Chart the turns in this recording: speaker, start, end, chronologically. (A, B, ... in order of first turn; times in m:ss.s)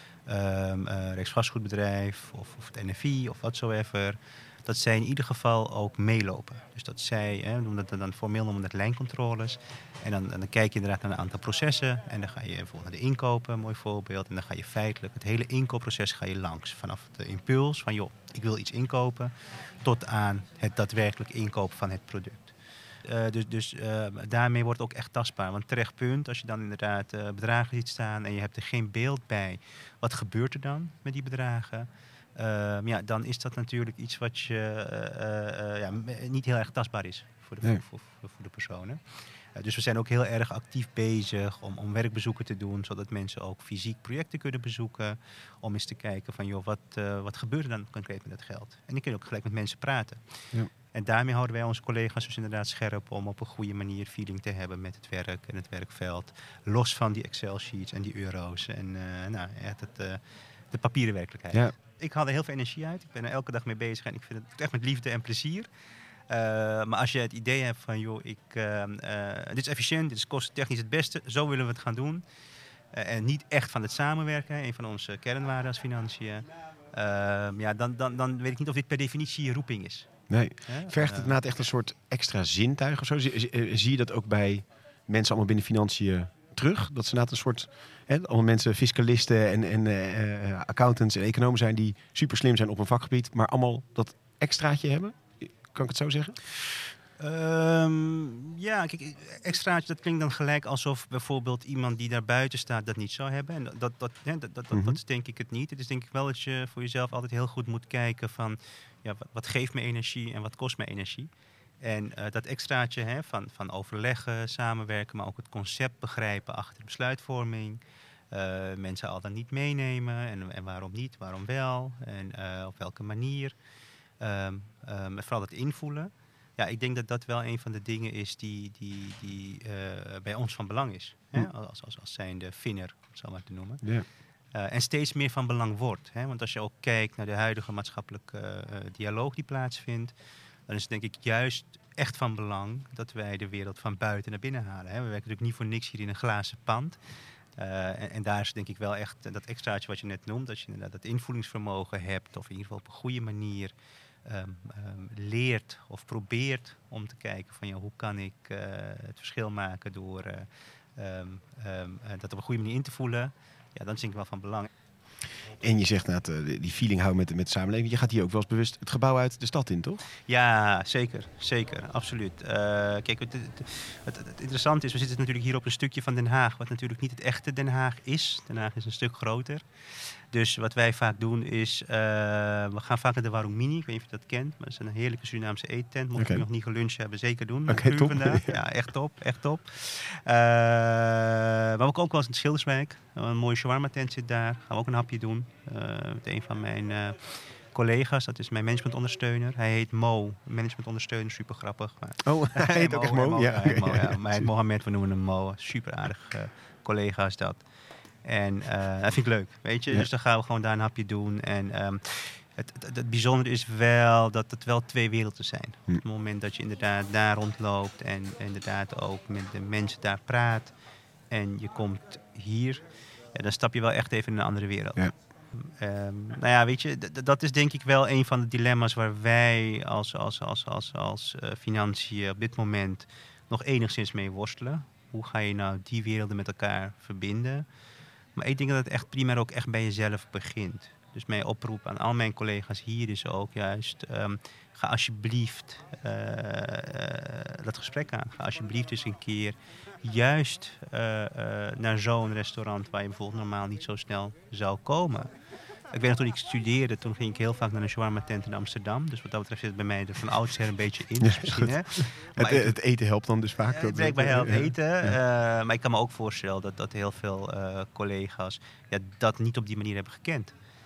0:00.2-1:05.7 A
1:06.3-1:12.2 A
1:12.9-1:21.4 A
1:20.3-1:36.4 B
1:37.2-1:51.3 A
1:44.7-1:45.0 B
1:51.8-1:57.8 A
1:58.3-2:03.6 A
2:04.2-2:20.2 A
2:20.7-2:27.0 A
2:27.6-2:44.7 A
2:45.6-2:50.0 B
2:50.3-2:59.7 A
3:00.2-3:27.7 A
3:06.2-3:06.5 B
3:07.7-3:08.5 B
3:22.2-3:24.5 B
3:28.2-3:40.7 A
3:41.3-3:57.7 A
3:58.4-4:15.3 A
4:15.9-4:22.8 A
4:21.2-4:25.2 B
4:23.7-4:30.5 A